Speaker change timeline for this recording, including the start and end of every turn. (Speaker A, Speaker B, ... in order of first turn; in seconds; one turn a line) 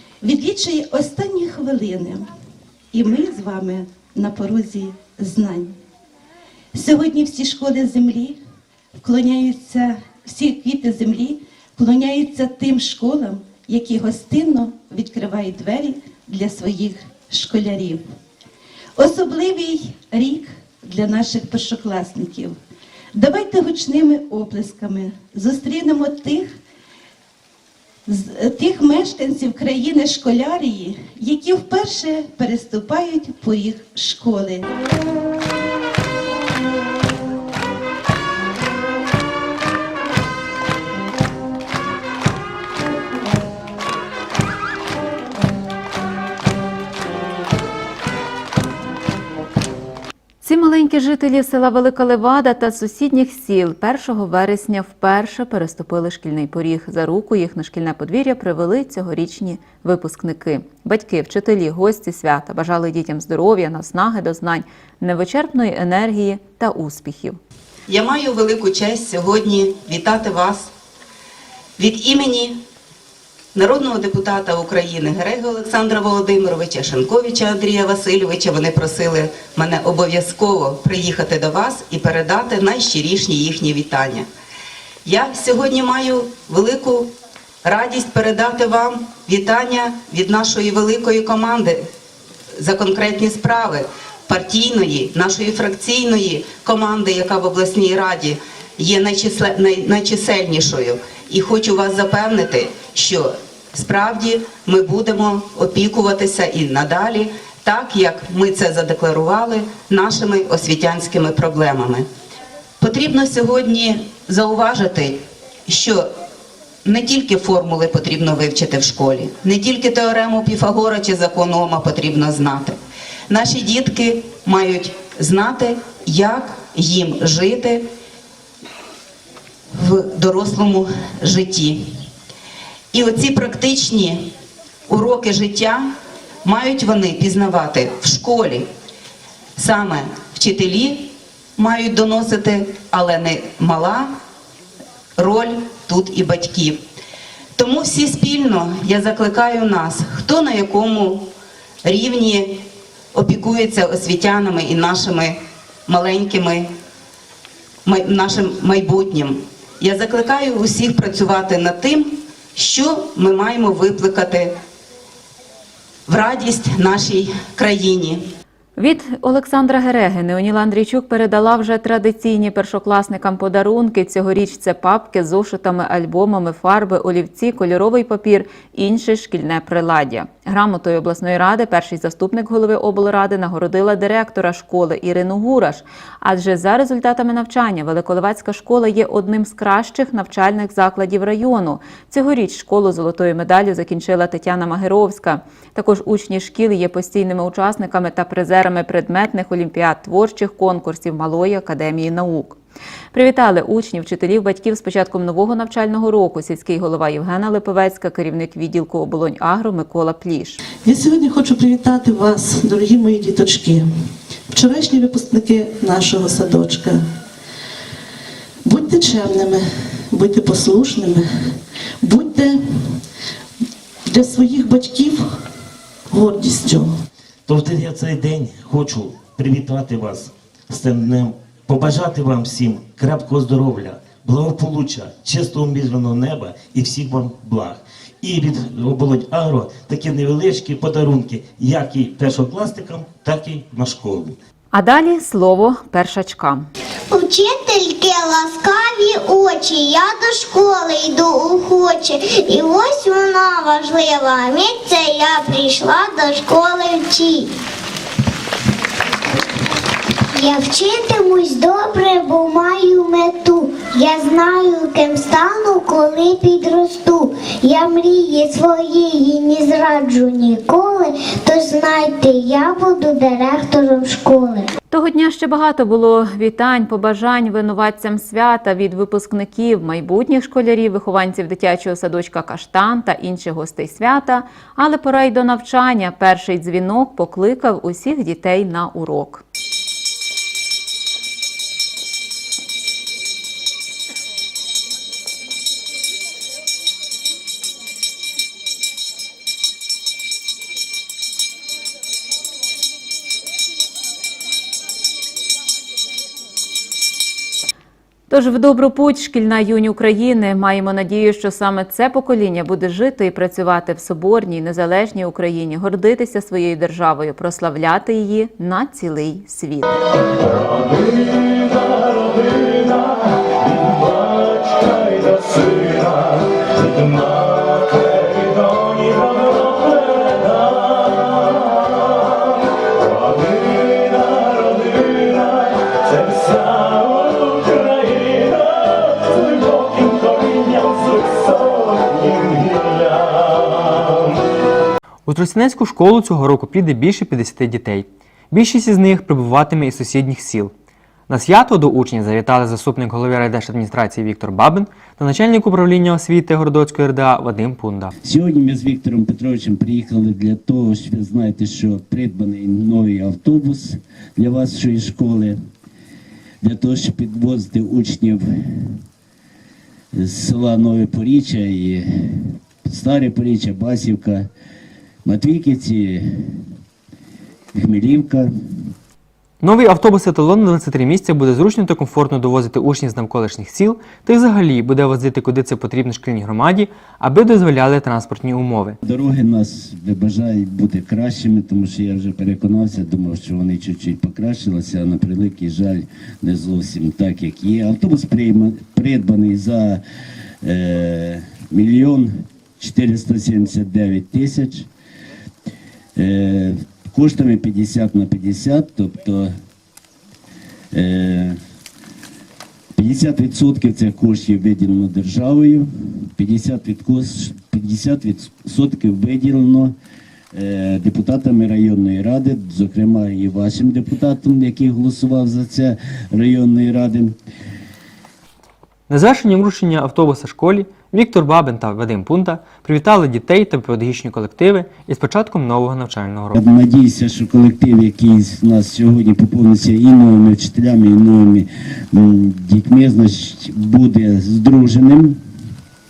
Speaker A: 0.2-2.3
Speaker A: 2.9-5.8
Speaker A: 6.7-8.4
Speaker A: 9.0-18.0
Speaker A: 19.0-22.6
Speaker A: 23.1-26.5
Speaker A: 28.1-34.7
Speaker B: 50.4-67.4
Speaker C: 67.9-70.7
Speaker C: 71.8-72.6
Speaker C: 73.5-84.3
Speaker C: 85.0-87.1
Speaker C: 87.6-91.8
Speaker C: 92.6-112.1
Speaker C: 112.8-116.1
Speaker C: 116.8-122.8
Speaker C: 123.3-127.8
Speaker C: 129.8-131.8
Speaker C: 132.9-134.3
Speaker C: 134.9-135.9
Speaker C: 136.4-138.7
Speaker C: 139.6-144.1
Speaker C: 145.2-146.8
Speaker C: 147.6-151.3
Speaker C: 151.8-156.7
Speaker C: 157.8-164.6
Speaker C: 166.1-168.2
Speaker B: 168.8-202.6
Speaker B: 203.1-210.6
Speaker D: 210.8-213.9
Speaker D: 214.5-217.1
Speaker D: 218.7-223.0
Speaker D: 224.1-225.4
Speaker D: 226.1-226.9
Speaker E: 227.5-244.4
Speaker B: 244.7-246.7
Speaker F: 247.1-257.5
Speaker F: 260.4-274.7
Speaker B: 274.9-289.4
Speaker B: 308.3-319.9
Speaker E: 324.8-326.1
Speaker E: 336.6-337.0
Speaker G: 345.3-350.7
Speaker G: 351.3-358.1
Speaker H: 358.2-365.6
Speaker H: 366.6-369.0
Speaker H: 370.1-374.5
Speaker H: 375.2-376.6
Speaker H: 377.7-378.5
Speaker G: 379.6-389.0
Speaker H: 389.0-400.0
Speaker H: 400.6-404.9
Speaker H: 406.2-409.5
Speaker H: 410.9-411.6
Speaker H: 412.9-419.9
Speaker H: 420.5-427.4
Speaker G: 429.1-436.6
Speaker H: 436.6-445.4